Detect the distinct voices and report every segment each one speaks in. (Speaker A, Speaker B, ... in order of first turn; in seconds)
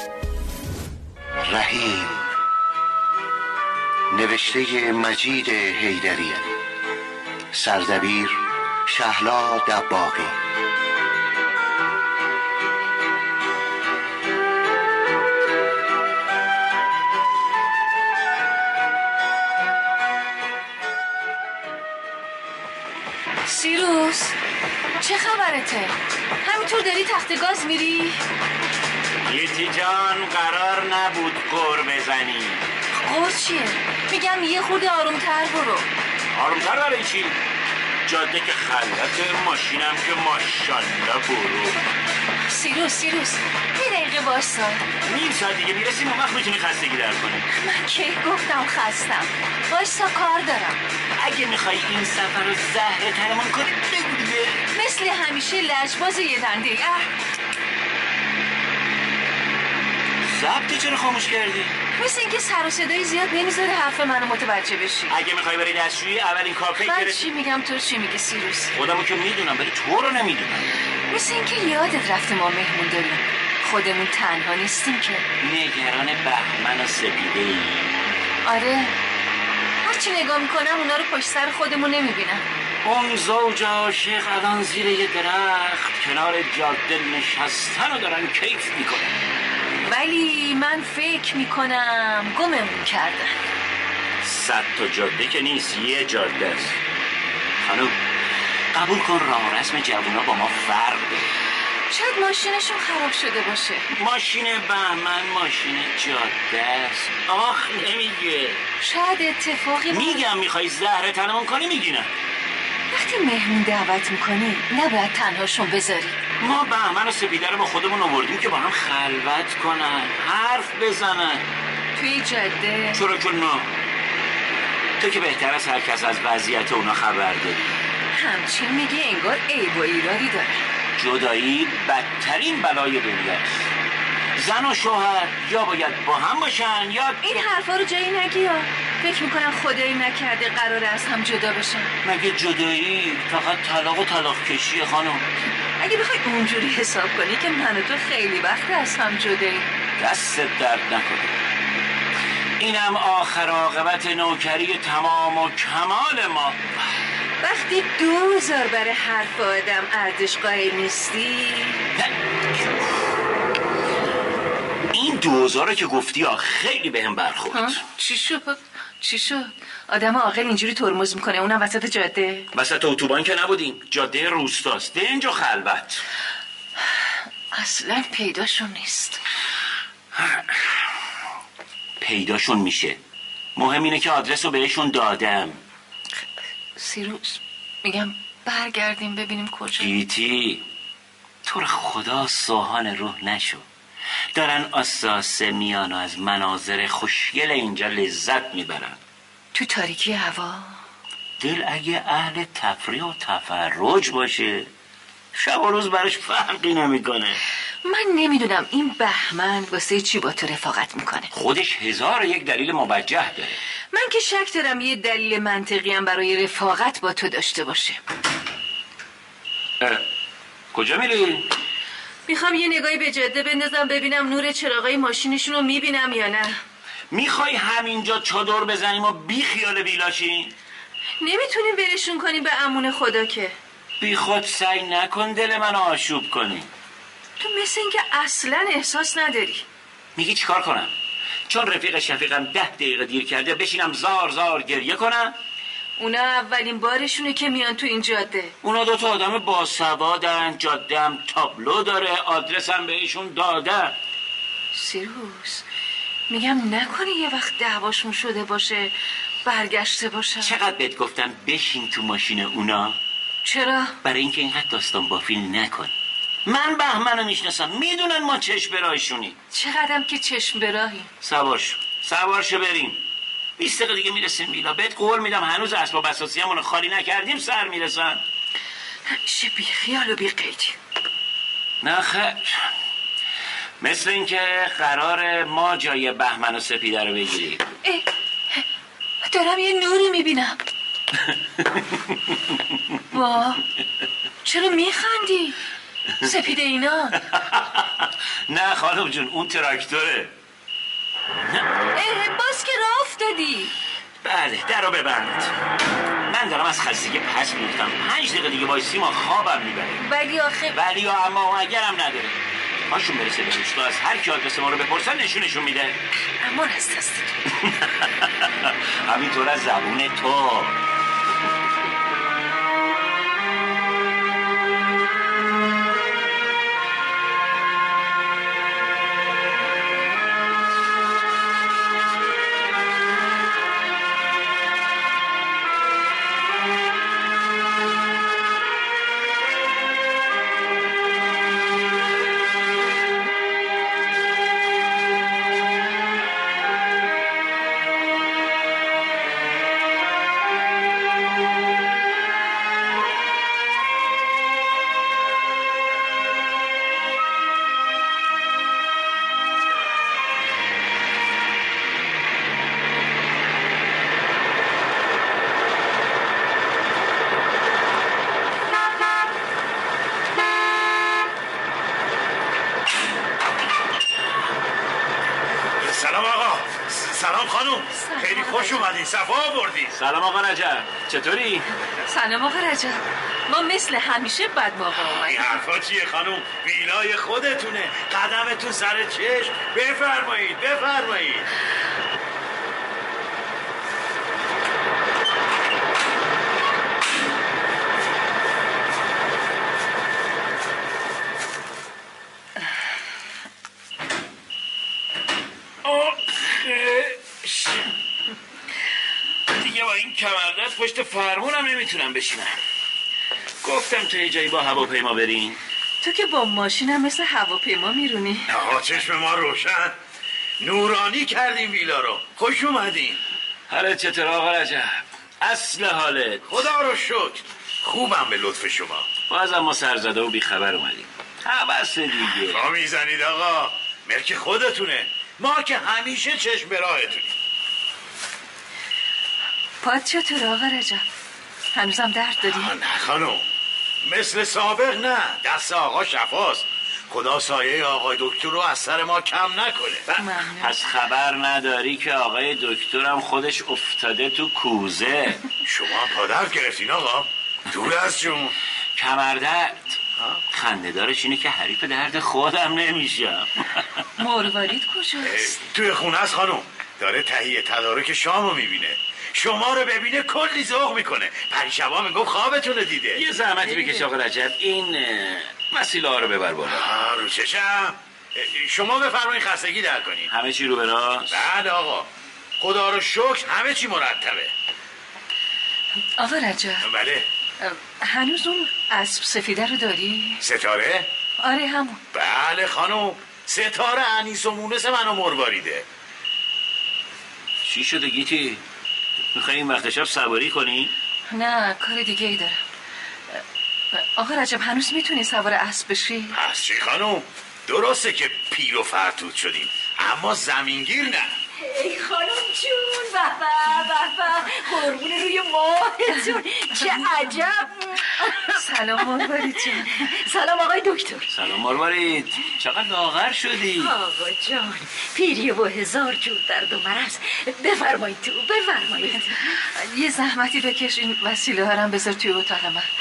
Speaker A: 1.5-2.2, 4.1-6.5, 7.5-10.4
Speaker B: 23.4-24.4, 25.0-28.2, 32.9-35.9, 42.5-44.8, 47.5-50.8, 54.7-57.0, 62.0-65.1, 66.8-68.7, 71.1-75.2, 78.4-79.0, 79.8-82.4, 89.8-93.3, 101.9-103.8, 108.8-110.2, 112.9-116.2, 121.9-123.0, 128.1-130.6, 137.2-141.9, 145.8-149.7, 157.4-161.8, 167.5-172.5, 177.5-179.2, 186.8-189.9, 199.5-200.8, 207.8-211.3, 213.9-218.0, 222.3-226.6, 231.2-233.5, 237.4-239.6, 246.0-248.5, 254.7-255.6, 256.3-258.9, 259.4-260.5, 263.4-263.9, 269.5-271.1, 279.1-280.8, 287.8-288.6, 289.2-290.6, 293.1-293.6, 294.4-295.6, 296.2-297.2, 301.9-303.7, 310.0-310.7, 316.4-317.4, 377.9-378.9, 382.1-385.6, 416.0-418.5, 439.8-441.0, 441.7-442.7, 450.2-450.7, 464.2-465.6, 473.7-474.0, 486.2-486.9, 487.6-490.4, 491.4-492.0, 501.3-502.6, 503.9-506.4, 518.3-520.0, 529.6-532.9
Speaker C: 29.2-32.6, 36.3-37.4, 38.0-41.8, 45.0-47.5, 51.2-54.6, 60.2-61.8, 65.1-67.3, 68.7-70.8, 75.4-77.9, 82.8-89.1, 94.2-96.8, 97.6-98.0, 98.7-101.3, 103.9-108.6, 109.9-112.1, 116.4-121.4, 122.9-123.7, 125.0-127.6, 131.0-133.5, 134.3-137.2, 142.0-145.2, 150.0-151.3, 152.6-156.6, 161.9-162.9, 164.9-167.8, 172.5-176.0, 180.1-180.8, 182.0-183.0, 183.6-185.6, 189.8-190.6, 191.4-193.6, 194.3-199.0, 201.4-204.7, 205.3-207.4, 211.3-213.6, 220.7-221.5, 227.1-230.5, 234.0-236.7, 240.2-240.9, 241.5-245.3, 248.6-253.9, 260.4-263.0, 264.0-265.9, 266.4-269.4, 271.2-273.0, 273.6-278.2, 281.8-282.7, 283.8-287.6, 291.2-292.3, 297.2-300.3, 301.4-301.7, 304.2-305.5, 306.3-310.0, 310.7-312.4, 312.9-316.0, 317.6-320.8, 379.9-381.7, 405.8-407.9, 409.5-412.6, 413.6-415.6, 423.7-426.5, 429.3-432.6, 450.1-455.4, 459.0-460.0, 460.5-463.8, 473.1-476.9, 480.3-481.4, 497.6-498.6, 499.3-500.9, 521.3-523.9
Speaker D: 375.8-379.9, 385.1-391.4, 418.5-419.9, 420.6-423.2, 426.5-429.1, 432.4-437.4, 442.4-443.4, 444.0-450.1, 455.6-458.5, 465.2-473.2, 476.7-480.3, 481.3-482.1, 482.6-484.5, 486.8-487.2, 490.4-491.1, 492.1-495.8, 506.3-511.3
Speaker E: 511.6-521.3, 523.8-529.6